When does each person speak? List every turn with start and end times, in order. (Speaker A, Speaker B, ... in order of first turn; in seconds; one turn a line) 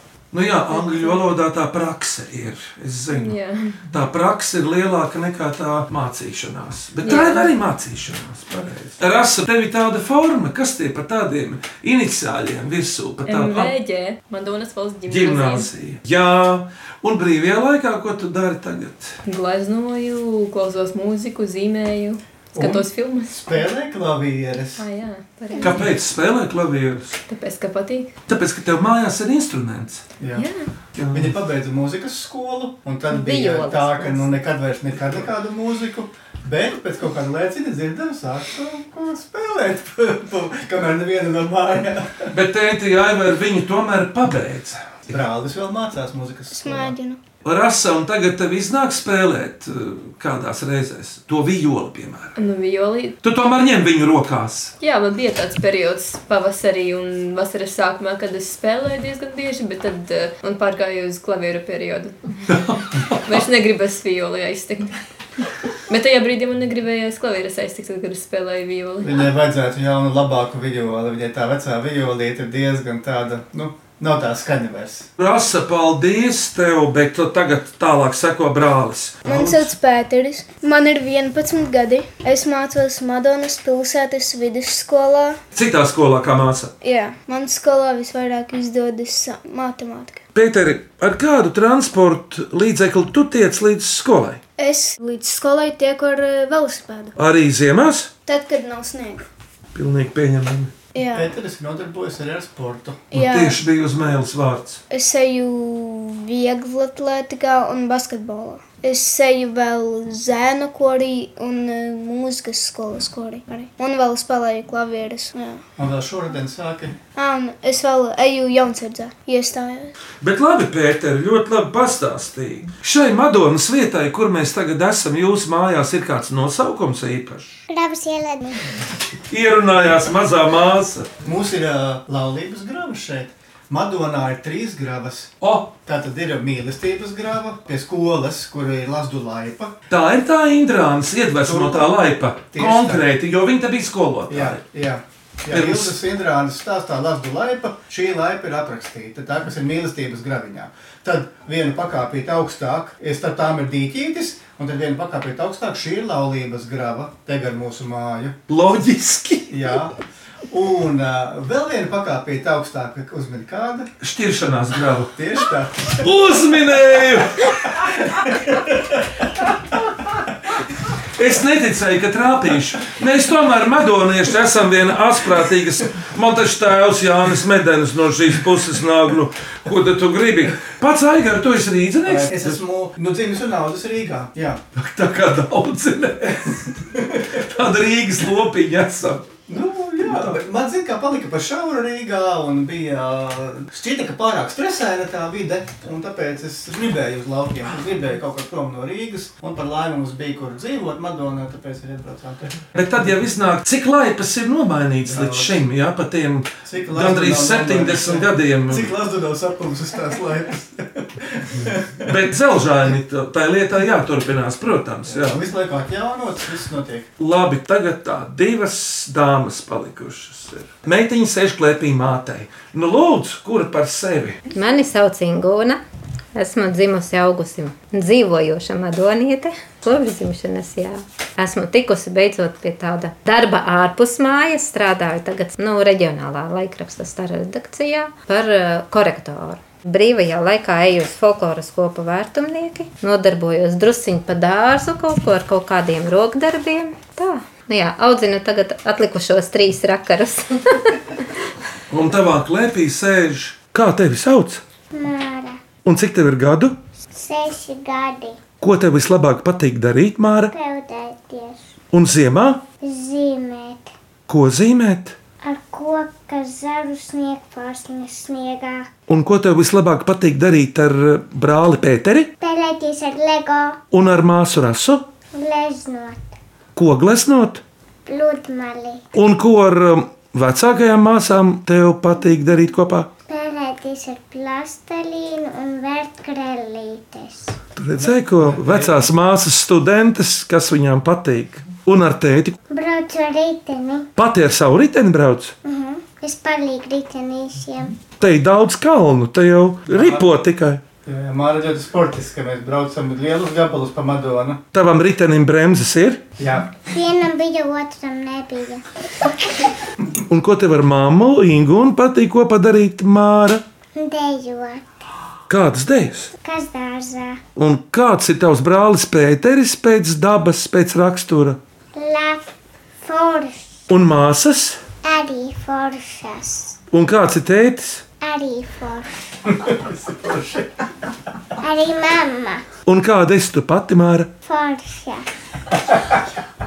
Speaker A: 0.3-3.4
Speaker B: 0.7-1.2
Speaker B: 3.1-3.8
Speaker A: 3.9-13.7
Speaker B: 7.0-7.5
Speaker B: 13.2-15.7
Speaker A: 15.1-19.2
Speaker B: 19.2-23.6
Speaker C: 22.5-24.9
Speaker B: 24.8-25.9
Speaker A: 25.6-27.2
Speaker B: 27.3-28.1
Speaker A: 28.3-30.0
Speaker C: 30.2-30.5
Speaker B: 30.4-30.7
Speaker A: 30.9-31.3
Speaker C: 31.1-42.3
Speaker D: 33.1-34.3
Speaker A: 42.3-45.0
Speaker C: 45.1-46.9
Speaker E: 46.5-47.2
Speaker A: 47.4-52.4
Speaker B: 52.4-53.1
Speaker A: 53.2-54.7
Speaker B: 54.8-62.3
Speaker A: 62.5-63.4
Speaker B: 63.2-65.0
Speaker B: 65.9-69.3
Speaker C: 69.0-75.1
Speaker A: 75.2-79.8
Speaker E: 79.2-85.4
Speaker A: 85.5-86.7
Speaker E: 86.8-90.2
Speaker A: 90.3-94.4
Speaker E: 94.6-97.2
Speaker A: 97.2-98.1
Speaker E: 98.2-99.3
Speaker A: 99.7-100.7
Speaker E: 100.9-101.3
Speaker C: 101.1-103.1
Speaker E: 103.1-103.6
Speaker A: 103.1-104.8
Speaker E: 104.9-115.6
Speaker C: 115.8-117.0
Speaker E: 117.1-119.9
Speaker A: 120.2-127.6
Speaker F: 127.7-128.7
Speaker A: 129.3-131.1
Speaker C: 131.2-135.3
Speaker A: 135.4-135.7
Speaker C: 135.8-139.7
Speaker A: 139.9-144.6
Speaker C: 141.4-141.9
Speaker C: 142.5-143.1
Speaker C: 144.3-158.3
Speaker A: 145.5-145.9
Speaker A: 158.5-159.8
Speaker C: 159.5-159.9
Speaker C: 160.5-163.9
Speaker A: 164.0-165.1
Speaker C: 165.0-166.0
Speaker A: 165.9-167.7
Speaker C: 167.8-168.9
Speaker A: 171.2-182.6
Speaker C: 182.1-184.6
Speaker A: 184.7-186.7
Speaker C: 186.9-187.3
Speaker A: 187.3-189.3
Speaker C: 189.5-202.6
Speaker A: 190.1-190.3
Speaker A: 202.7-208.9
Speaker C: 205.1-205.6
Speaker C: 206.6-212.2
Speaker A: 212.0-215.4
Speaker C: 215.1-217.1
Speaker A: 217.2-224.4
Speaker D: 224.5-225.8
Speaker D: 226.3-251.0
Speaker A: 251.9-254.6
Speaker F: 254.9-255.6
Speaker A: 255.8-256.8
Speaker F: 257.1-258.4
Speaker A: 258.6-260.5
Speaker F: 260.5-261.6
Speaker A: 261.9-262.6
Speaker F: 262.8-263.9
Speaker A: 264.3-265.1
Speaker F: 265.4-268.9
Speaker A: 269.1-272.3
Speaker F: 272.4-273.8
Speaker A: 273.9-275.0
Speaker F: 275.3-276.3
Speaker A: 276.7-277.6
Speaker F: 278.1-279.0
Speaker A: 279.1-283.1
Speaker F: 283.3-287.6
Speaker A: 287.8-292.6
Speaker C: 288.4-289.0
Speaker F: 292.7-294.1
Speaker A: 294.1-295.5
Speaker F: 295.6-297.9
Speaker A: 298.2-300.8
Speaker C: 299.9-300.3
Speaker C: 301.0-304.6
Speaker A: 304.7-306.2
Speaker C: 306.4-306.7
Speaker F: 306.9-308.8
Speaker A: 310.3-313.6
Speaker F: 313.9-314.9
Speaker A: 315.5-316.3
Speaker F: 316.4-317.4
Speaker A: 317.6-321.6
Speaker F: 321.9-322.4
Speaker F: 323.0-323.8
Speaker A: 323.9-324.8
Speaker F: 325.0-326.8
Speaker A: 326.9-328.0
Speaker F: 328.2-329.1
Speaker C: 329.6-330.7
Speaker F: 331.6-332.6
Speaker A: 332.9-334.3
Speaker F: 334.4-335.2